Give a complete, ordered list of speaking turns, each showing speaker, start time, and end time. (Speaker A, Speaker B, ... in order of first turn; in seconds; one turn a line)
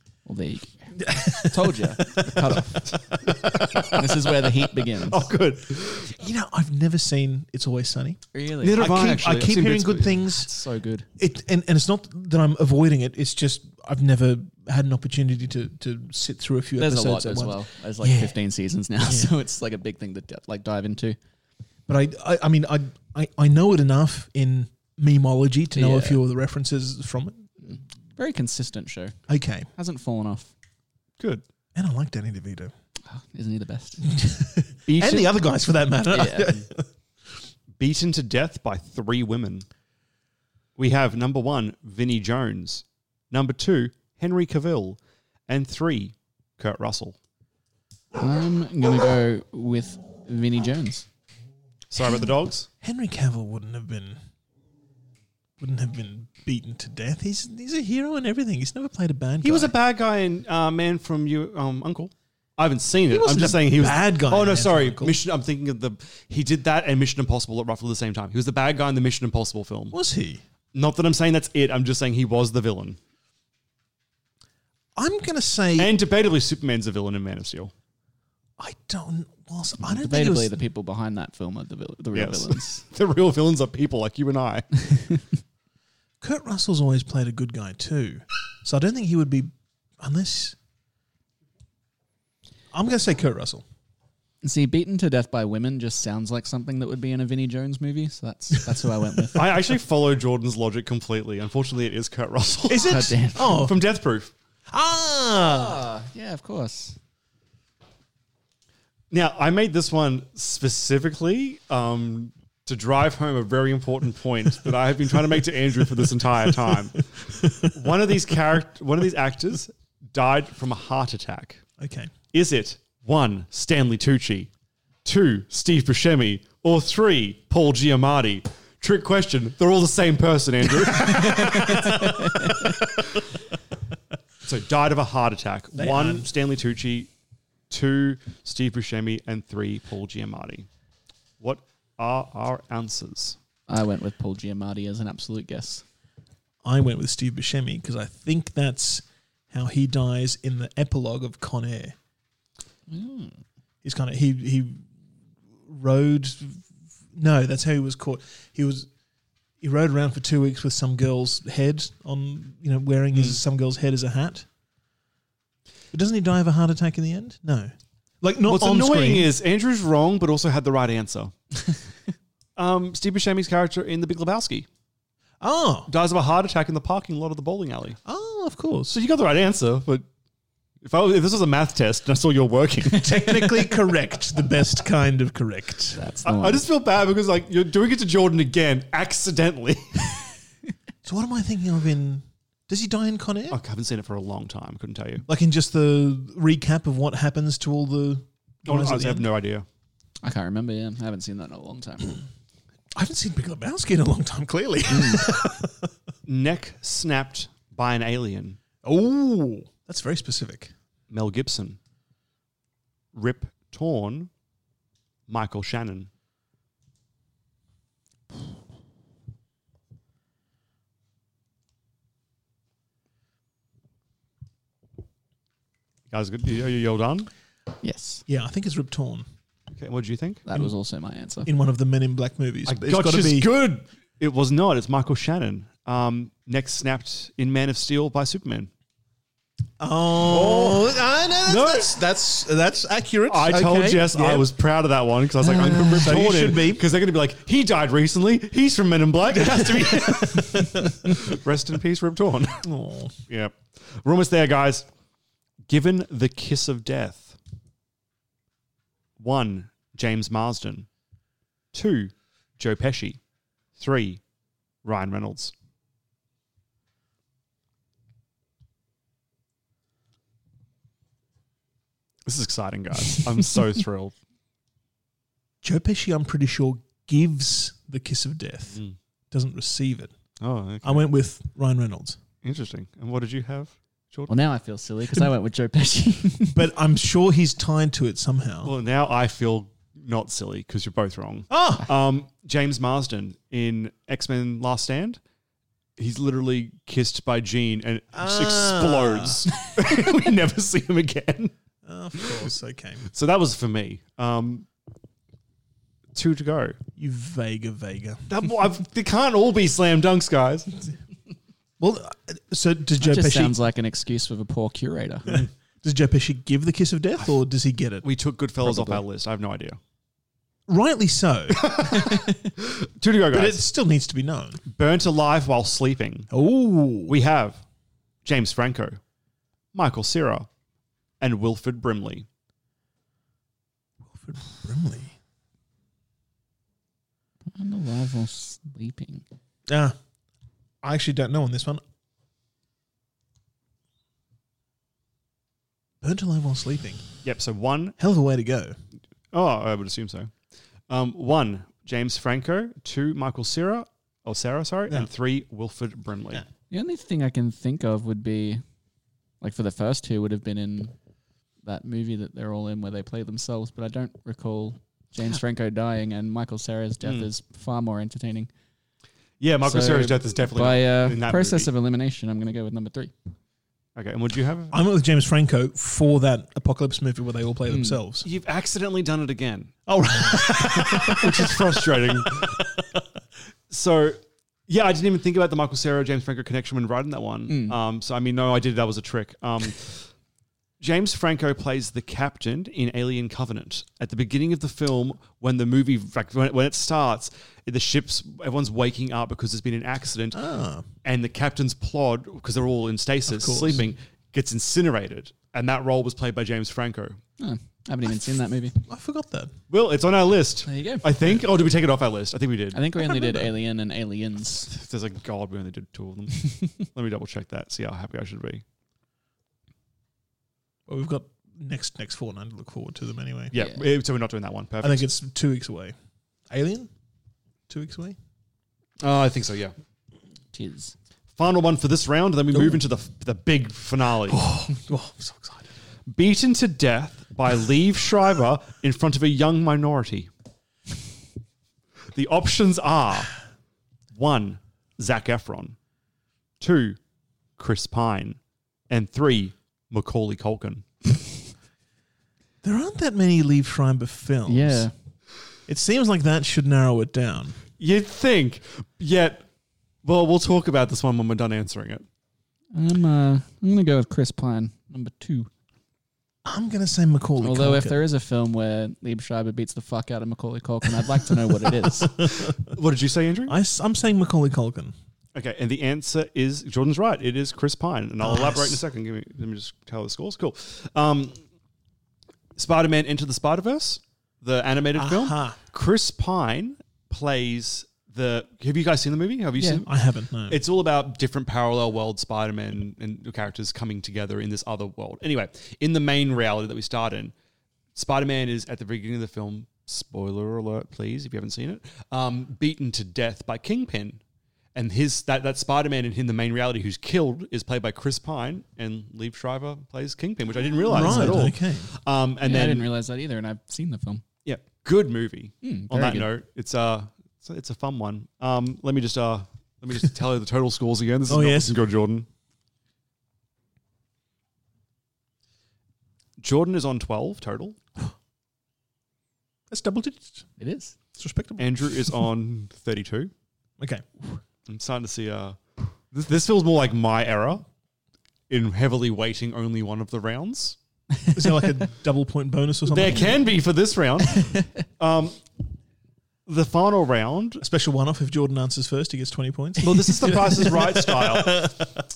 Speaker A: 0.2-3.0
Speaker B: 1.0-2.6
Speaker C: 3.3-4.1
Speaker A: 3.8-5.3
Speaker C: 5.0-6.1
Speaker B: 6.0-8.2
Speaker A: 8.3-9.1
Speaker C: 8.6-10.3
Speaker B: 8.8-10.5
Speaker A: 10.4-11.1
Speaker B: 11.2-18.3
Speaker A: 16.8-21.2
Speaker B: 19.1-19.3
Speaker B: 21.9-27.7
Speaker A: 25.7-26.2
Speaker A: 27.7-29.1
Speaker B: 29.3-29.7
Speaker A: 29.7-30.5
Speaker C: 31.2-31.4
Speaker B: 31.7-32.7
Speaker A: 33.0-34.0
Speaker B: 34.0-36.8
Speaker C: 34.9-35.3
Speaker A: 36.1-36.6
Speaker C: 37.8-39.6
Speaker C: 40.8-47.1
Speaker A: 48.1-51.0
Speaker C: 51.9-52.7
Speaker B: 52.8-54.2
Speaker B: 55.6-59.7
Speaker C: 59.4-70.0
Speaker B: 63.1-65.2
Speaker B: 69.9-70.4
Speaker C: 70.7-73.0
Speaker B: 75.0-75.9
Speaker C: 75.8-77.7
Speaker B: 78.6-80.6
Speaker A: 79.9-82.8
Speaker C: 82.1-84.7
Speaker B: 86.2-90.5
Speaker B: 92.7-93.6
Speaker A: 94.4-99.5
Speaker C: 99.3-104.3
Speaker B: 102.7-103.8
Speaker A: 102.9-103.7
Speaker B: 104.7-105.8
Speaker A: 105.5-107.0
Speaker C: 109.1-121.6
Speaker B: 115.9-116.8
Speaker B: 117.4-117.7
Speaker B: 121.8-122.1
Speaker C: 122.3-124.5
Speaker C: 125.0-133.2
Speaker A: 131.6-132.5
Speaker C: 134.4-137.1
Speaker B: 135.7-136.3
Speaker C: 137.7-140.7
Speaker C: 141.4-143.4
Speaker A: 143.7-145.8
Speaker B: 146.6-151.9
Speaker A: 152.9-153.4
Speaker B: 153.8-154.8
Speaker B: 155.7-158.9
Speaker B: 159.6-164.4
Speaker B: 165.9-169.3
Speaker C: 168.5-171.3
Speaker C: 172.6-174.7
Speaker B: 175.4-175.9
Speaker C: 175.9-178.0
Speaker B: 178.1-179.0
Speaker C: 178.9-180.0
Speaker C: 180.8-183.2
Speaker B: 182.9-186.0
Speaker A: 185.9-186.6
Speaker C: 186.2-190.2
Speaker B: 191.0-193.6
Speaker C: 193.5-195.2
Speaker B: 195.3-199.3
Speaker C: 198.7-199.7
Speaker A: 200.2-202.2
Speaker B: 202.9-205.9
Speaker A: 204.9-205.3
Speaker C: 206.2-208.6
Speaker B: 208.8-210.7
Speaker C: 211.1-211.8
Speaker C: 213.1-214.3
Speaker C: 215.3-216.1
Speaker C: 226.1-227.3
Speaker A: 227.8-228.2
Speaker B: 228.3-229.2
Speaker C: 229.8-230.4
Speaker A: 230.4-231.5
Speaker B: 231.4-233.6
Speaker C: 232.7-238.7
Speaker B: 239.8-244.5
Speaker C: 240.2-241.9
Speaker C: 243.3-252.6
Speaker B: 245.4-246.8
Speaker B: 249.3-251.1
Speaker B: 252.6-253.1
Speaker C: 253.3-254.8
Speaker C: 255.7-257.4
Speaker C: 259.2-260.9
Speaker C: 261.7-263.2
Speaker C: 263.8-264.2
Speaker C: 264.8-265.5
Speaker C: 272.2-274.1
Speaker B: 275.6-280.1
Speaker C: 280.4-281.1
Speaker B: 280.8-282.2
Speaker C: 282.4-284.3
Speaker A: 284.3-286.6
Speaker B: 286.5-288.7
Speaker C: 288.6-295.2
Speaker B: 291.5-291.9
Speaker C: 296.0-301.5
Speaker B: 298.1-299.4
Speaker B: 301.8-303.1
Speaker C: 303.1-304.7
Speaker C: 306.1-306.8
Speaker B: 306.9-308.2
Speaker C: 308.3-310.7
Speaker B: 311.8-313.6
Speaker A: 313.0-315.4
Speaker B: 315.3-318.0
Speaker C: 318.0-319.8
Speaker A: 318.6-319.0
Speaker B: 320.7-321.8
Speaker C: 321.5-323.6
Speaker B: 323.3-324.6
Speaker C: 324.7-326.3
Speaker B: 326.3-327.1
Speaker C: 327.1-327.6
Speaker C: 328.2-329.0
Speaker C: 329.7-330.5
Speaker C: 331.2-332.2
Speaker B: 334.0-335.1
Speaker A: 337.5-339.2
Speaker B: 339.7-339.9
Speaker B: 340.8-341.8
Speaker B: 346.0-347.0
Speaker C: 347.2-348.0
Speaker B: 348.0-348.8
Speaker C: 349.3-350.3
Speaker C: 350.9-356.4
Speaker A: 356.7-358.6
Speaker A: 359.4-360.9
Speaker A: 361.6-368.5
Speaker C: 367.0-367.3
Speaker C: 369.4-371.7
Speaker A: 369.6-373.1
Speaker C: 373.9-374.8
Speaker B: 374.7-378.2
Speaker A: 377.7-378.0
Speaker C: 378.2-379.7
Speaker B: 379.9-383.0
Speaker C: 380.3-382.6
Speaker C: 383.7-390.1
Speaker A: 387.5-387.8
Speaker C: 390.8-400.4
Speaker B: 400.3-400.9
Speaker C: 401.0-407.2
Speaker B: 403.3-403.8
Speaker A: 407.4-408.8
Speaker B: 408.8-409.5
Speaker C: 409.7-412.8
Speaker A: 410.6-411.1
Speaker A: 412.7-414.7
Speaker B: 413.0-413.5
Speaker C: 414.7-418.6
Speaker B: 420.9-423.5
Speaker C: 423.5-425.1
Speaker B: 424.8-425.9
Speaker B: 426.5-426.9
Speaker B: 427.7-428.2
Speaker C: 429.0-429.7
Speaker A: 430.5-430.9
Speaker C: 431.4-434.4
Speaker B: 434.3-435.7
Speaker C: 436.1-440.3
Speaker C: 442.1-443.4
Speaker C: 444.1-445.8
Speaker C: 446.6-447.0
Speaker C: 447.6-448.4
Speaker C: 448.9-450.9
Speaker B: 452.6-454.9
Speaker A: 454.5-454.9
Speaker B: 455.7-457.6
Speaker C: 457.8-459.4
Speaker C: 460.0-462.0
Speaker A: 462.7-465.5
Speaker B: 466.4-468.0
Speaker A: 467.4-472.2
Speaker B: 471.8-472.6
Speaker C: 472.4-473.5
Speaker B: 473.4-474.9
Speaker C: 475.3-481.4
Speaker B: 478.2-478.8
Speaker C: 482.6-489.9
Speaker B: 484.9-485.6
Speaker B: 489.8-490.6
Speaker C: 490.5-497.3
Speaker C: 497.9-504.2
Speaker C: 504.7-512.9
Speaker B: 510.9-511.9
Speaker A: 510.9-511.5
Speaker A: 512.4-514.2
Speaker C: 514.4-522.3
Speaker A: 515.6-516.3
Speaker B: 521.3-521.8
Speaker C: 526.4-527.8
Speaker B: 529.7-530.5
Speaker A: 530.6-530.9
Speaker B: 531.1-532.2
Speaker C: 531.6-533.3
Speaker B: 533.8-534.0
Speaker C: 534.7-535.6
Speaker C: 536.1-537.6
Speaker C: 538.5-540.8
Speaker B: 541.3-543.5
Speaker C: 542.9-545.4
Speaker C: 546.5-547.6
Speaker B: 547.6-552.0
Speaker C: 549.8-551.8